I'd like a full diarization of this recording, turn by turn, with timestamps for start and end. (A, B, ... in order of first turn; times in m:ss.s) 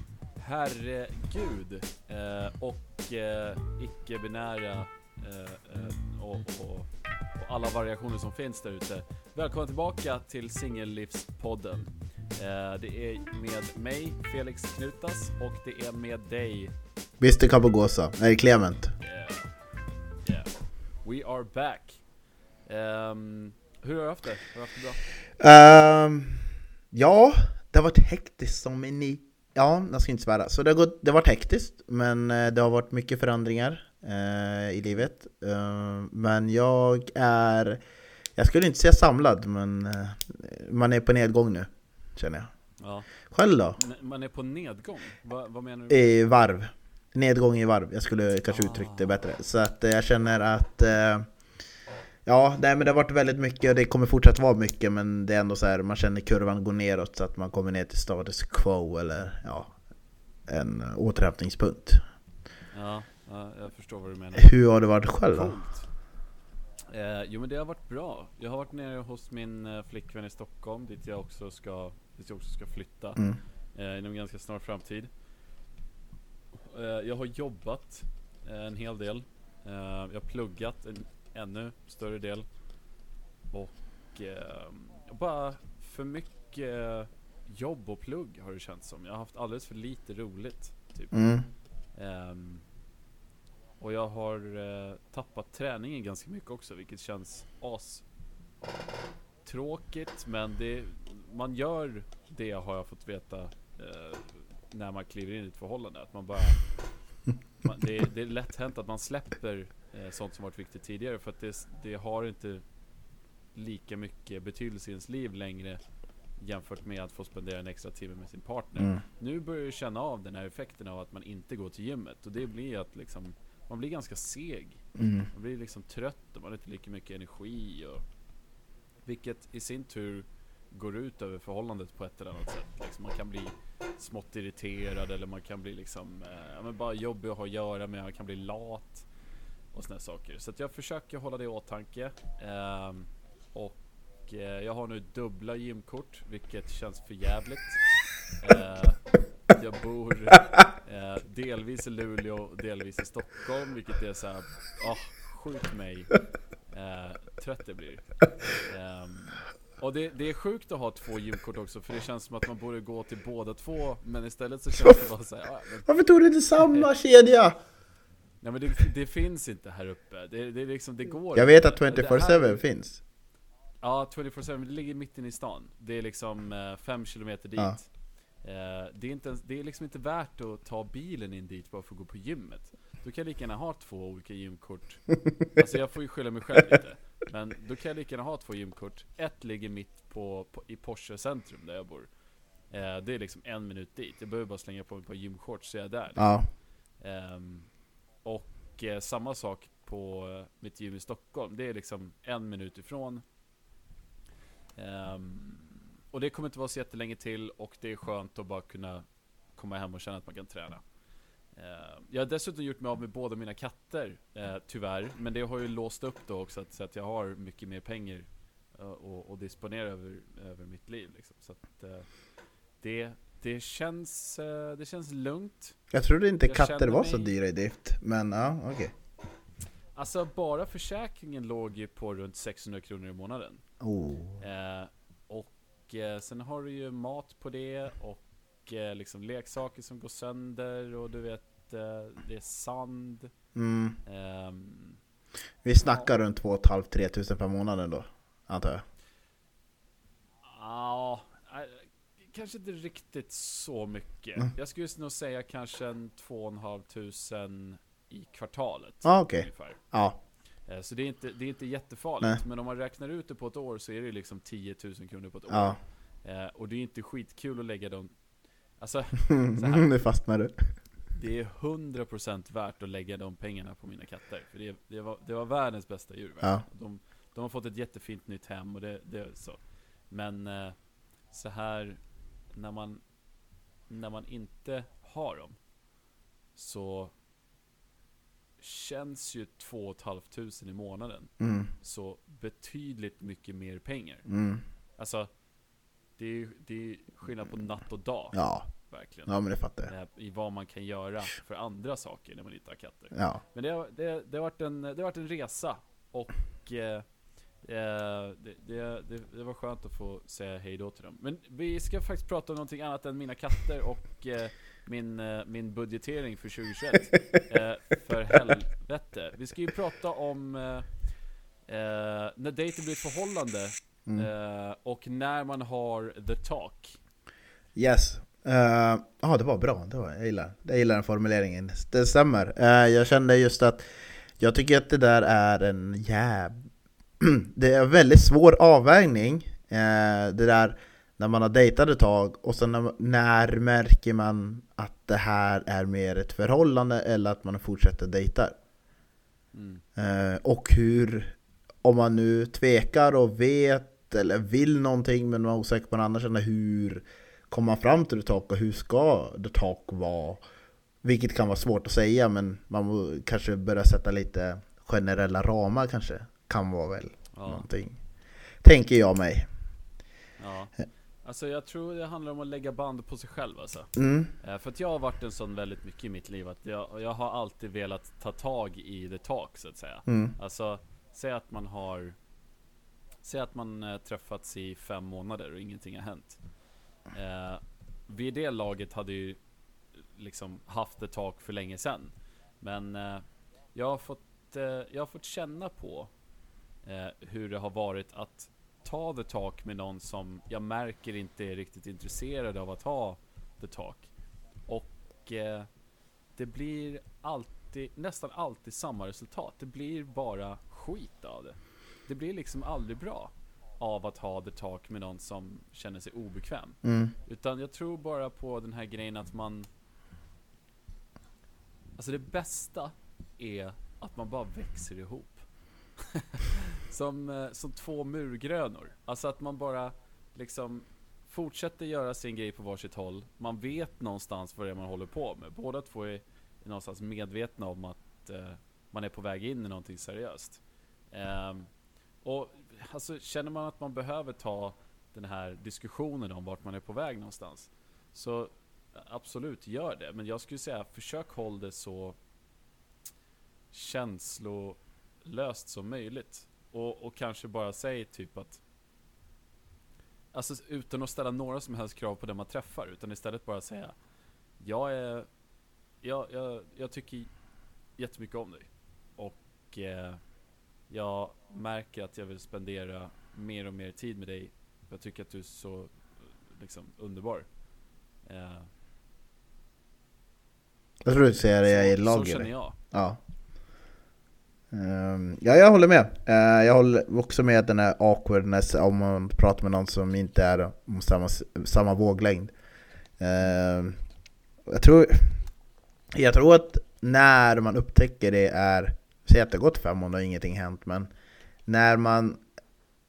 0:00.4-0:16.7 A
0:17.2-0:18.9 B
0:19.0-0:19.5 A
0:20.2-0:20.5 A
0:21.0-0:22.0 A
0:22.7-0:25.0 A
0:25.4-0:37.8 B
0:38.4-0:42.5 B
0:42.8-0:43.1 A
0:43.3-0:43.8 B
0:43.8-0:46.1 A
0:45.9-0:51.3 B
0:48.5-0:49.2 A
0:52.3-0:59.7 B
1:00.5-1:02.0 B
1:02.7-1:04.5 A
1:04.4-1:05.6 B
1:05.3-1:05.9 A
1:06.9-1:15.1 A
1:16.6-1:22.5 A
1:23.5-1:31.1 A
1:31.1-1:31.5 B
1:32.0-1:32.6 A
1:33.8-1:38.0 A
1:39.4-1:46.6 A
1:47.6-1:52.6 A
1:53.6-1:55.8 A
1:56.4-2:08.0 A
2:05.0-2:05.3 B
2:09.0-2:19.1 A
2:19.7-2:27.8 A
2:28.4-2:46.0 A
2:45.9-2:47.6 B
2:46.6-2:46.9 A
2:48.4-2:52.6 A
2:51.3-2:53.0 B
2:53.8-2:57.9 A
2:58.4-3:12.1 A
3:12.7-3:16.3 A
3:16.2-3:16.5 B
3:17.0-3:17.7 A
3:18.2-3:23.2 A
3:24.8-3:29.0 A
3:29.6-3:30.8 A
3:31.6-3:42.1 A
3:42.8-3:45.8 A
3:45.9-3:48.9 B
3:46.4-3:47.3 A
3:50.0-3:53.6 A
3:53.8-3:54.4 B
3:54.4-4:03.3 A
4:03.6-4:04.0 B
4:04.0-4:05.0 A
4:05.6-4:08.8 B
4:10.4-4:19.8 A
4:19.0-4:20.2 B
4:20.7-4:28.1 A
4:25.5-4:25.8 B
4:28.8-4:29.9 A
4:29.3-4:30.7 B
4:31.1-4:39.6 A
4:40.1-4:40.8 A
4:41.3-4:42.0 A
4:42.5-4:43.0 A
4:43.9-4:45.6 A
4:46.6-4:47.1 A
4:48.6-4:54.3 A
4:51.4-4:51.7 B
4:54.3-4:54.6 B
4:55.0-4:55.3 A
4:56.2-4:59.3 A
4:58.3-4:58.7 B
4:59.3-4:59.9 B
4:59.9-5:07.0 A
5:03.1-5:03.4 B
5:07.6-5:21.0 A
5:21.7-5:27.0 A
5:27.8-5:33.8 B
5:34.4-5:36.5 B
5:37.2-5:48.6 B
5:49.5-5:49.8 A
5:50.0-6:00.4 B
6:01.0-6:08.0 B
6:07.3-6:07.7 A
6:08.6-6:09.5 B
6:10.4-6:22.2 A
6:14.0-6:14.3 B
6:20.1-6:20.3 B
6:23.2-6:26.4 A
6:27.1-6:29.4 A
6:30.2-6:36.1 A
6:36.8-6:44.1 A
6:44.7-6:45.7 A
6:46.4-6:59.7 A
6:56.8-6:57.1 B
7:02.0-7:05.4 A
7:06.0-7:21.7 A
7:22.2-7:32.2 A
7:33.7-7:38.6 A
7:40.3-7:44.0 A
7:44.6-7:45.3 A
7:46.0-7:47.3 A
7:48.0-7:50.2 A
7:50.9-7:57.5 A
7:58.2-7:58.7 A
8:01.0-8:03.2 B
8:01.6-8:02.8 A
8:04.7-8:12.5 B
8:13.2-8:14.0 B
8:14.7-8:15.4 B
8:16.1-8:21.1 B
8:21.7-8:22.4 B